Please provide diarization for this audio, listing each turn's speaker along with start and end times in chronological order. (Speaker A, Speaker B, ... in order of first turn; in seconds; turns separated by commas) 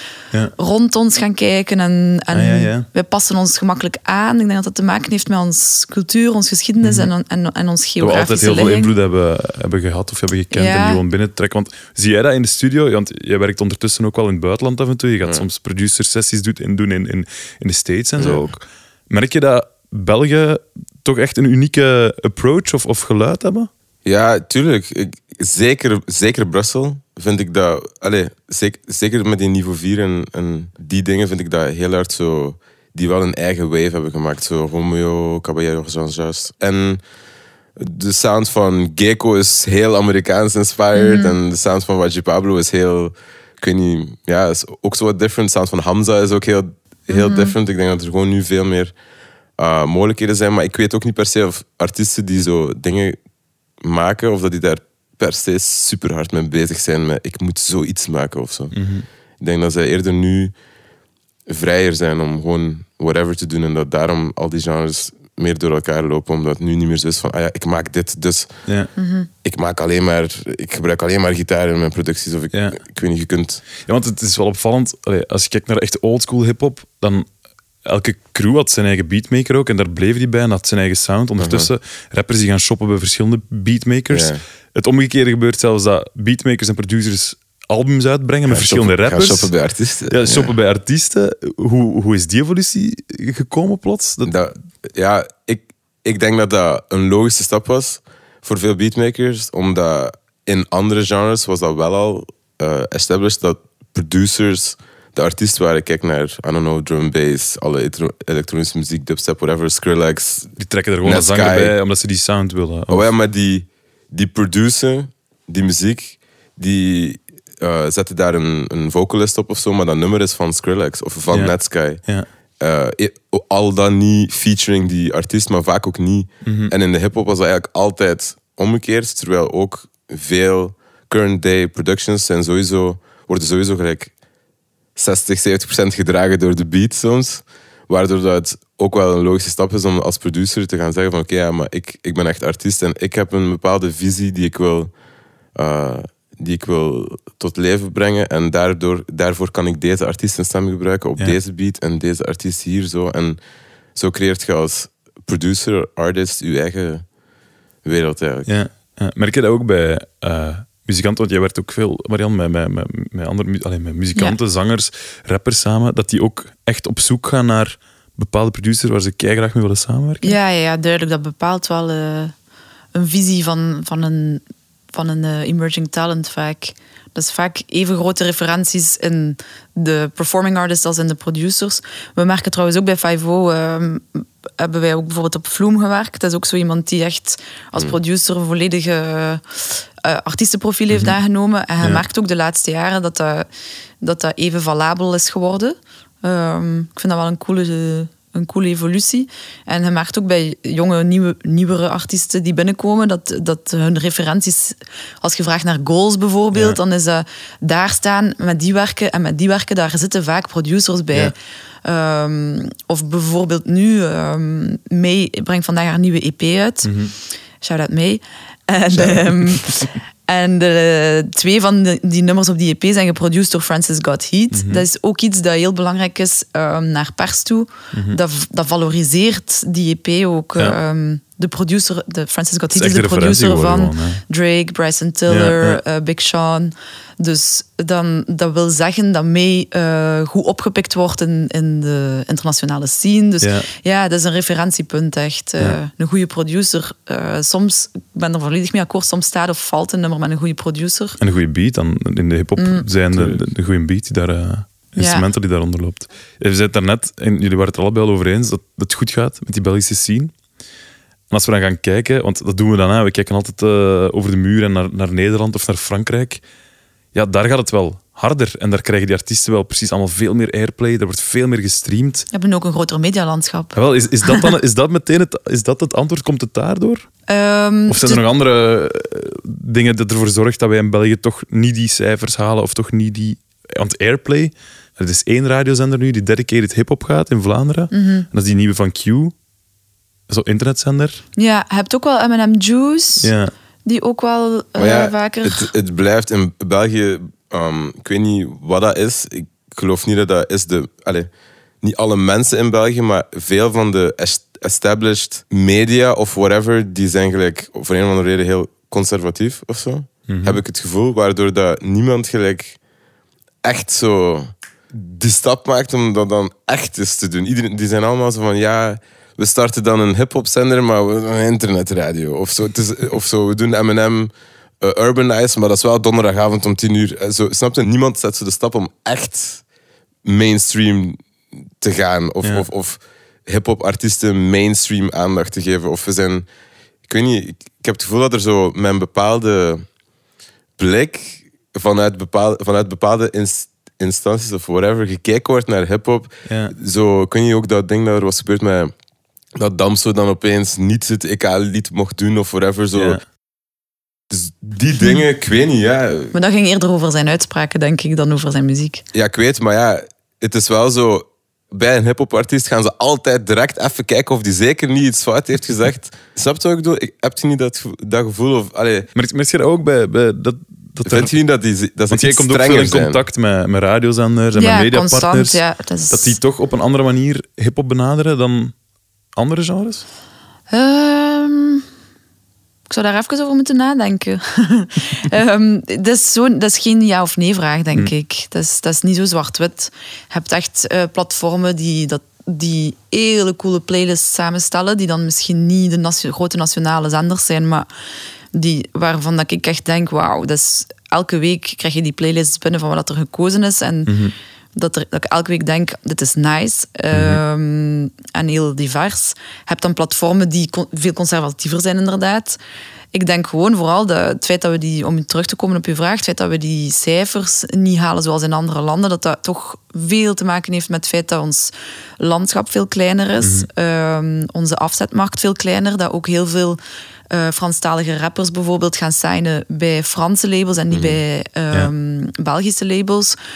Speaker A: 0.6-8.9, Speaker B: 2.3-2.9, Speaker B: 6.8-7.1, Speaker B: 8.0-23.7, Speaker A: 10.5-11.0, Speaker C: 18.2-18.5, Speaker C: 24.1-37.0, Speaker C: 37.8-48.9, Speaker A: 40.9-41.4, Speaker A: 47.1-47.6, Speaker C: 49.6-53.2, Speaker C: 53.8-58.8, Speaker B: 58.7-59.1, Speaker C: 59.4-60.6, Speaker C: 61.5-68.6, Speaker A: 69.0-69.3, Speaker C: 69.4-73.6, Speaker B: 72.5-72.8, Speaker B: 73.8-77.3, Speaker B: 77.8-89.5, Speaker C: 81.4-81.7, Speaker C: 84.1-84.4, Speaker C: 88.5-90.5, Speaker B: 90.1-94.3, Speaker C: 94.2-111.8, Speaker B: 110.6-113.1, Speaker C: 112.9-122.1, Speaker B: 121.3-122.3, Speaker C: 122.6-134.1, Speaker B: 126.5-126.7, Speaker C: 135.0-144.9, Speaker C: 145.6-153.4, Speaker C: 153.9-157.1, Speaker C: 157.8-158.6, Speaker B: 158.5-170.3, Speaker A: 170.2-172.3, Speaker A: 172.9-189.4, Speaker A: 190.0-193.5, Speaker B: 190.9-191.2, Speaker A: 194.0-211.3, Speaker B: 206.5-206.8, Speaker A: 211.8-216.9, Speaker B: 216.8-217.1, Speaker A: 217.6-251.2, Speaker C: 218.9-219.3, Speaker B: 224.5-224.8, Speaker B: 227.9-228.2, Speaker B: 232.7-234.2, Speaker B: 235.3-235.8, Speaker B: 243.4-243.7, Speaker B: 251.2-260.3, Speaker A: 252.6-252.9, Speaker A: 254.9-255.3, Speaker B: 261.3-266.4, Speaker B: 267.1-272.3, Speaker A: 272.3-274.5, Speaker B: 273.8-277.1, Speaker A: 277.3-278.2, Speaker B: 277.9-289.3, Speaker A: 287.9-288.3, Speaker B: 290.3-291.2, Speaker A: 291.4-293.3, Speaker B: 293.2-293.5, Speaker A: 293.9-295.7, Speaker C: 294.8-301.3, Speaker C: 301.8-312.8, Speaker B: 310.3-310.6, Speaker C: 313.6-329.6, Speaker C: 330.2-331.2, Speaker C: 331.8-336.5, Speaker C: 337.1-339.9, Speaker C: 340.8-348.9, Speaker B: 346.5-346.7, Speaker C: 349.6-353.2, Speaker B: 352.9-353.2, Speaker C: 354.3-356.3, Speaker A: 356.3-359.1, Speaker C: 359.1-369.1, Speaker B: 369.1-371.4, Speaker C: 371.1-373.2, Speaker B: 372.1-378.8, Speaker A: 374.6-376.4, Speaker B: 379.4-380.1, Speaker A: 380.7-381.8, Speaker A: 382.9-397.9, Speaker A: 398.5-404.2, Speaker B: 404.1-404.3, Speaker A: 404.8-412.6, Speaker B: 407.1-407.4, Speaker A: 413.1-426.8, Speaker B: 423.4-423.7, Speaker A: 427.3-433.4, Speaker C: 430.9-431.2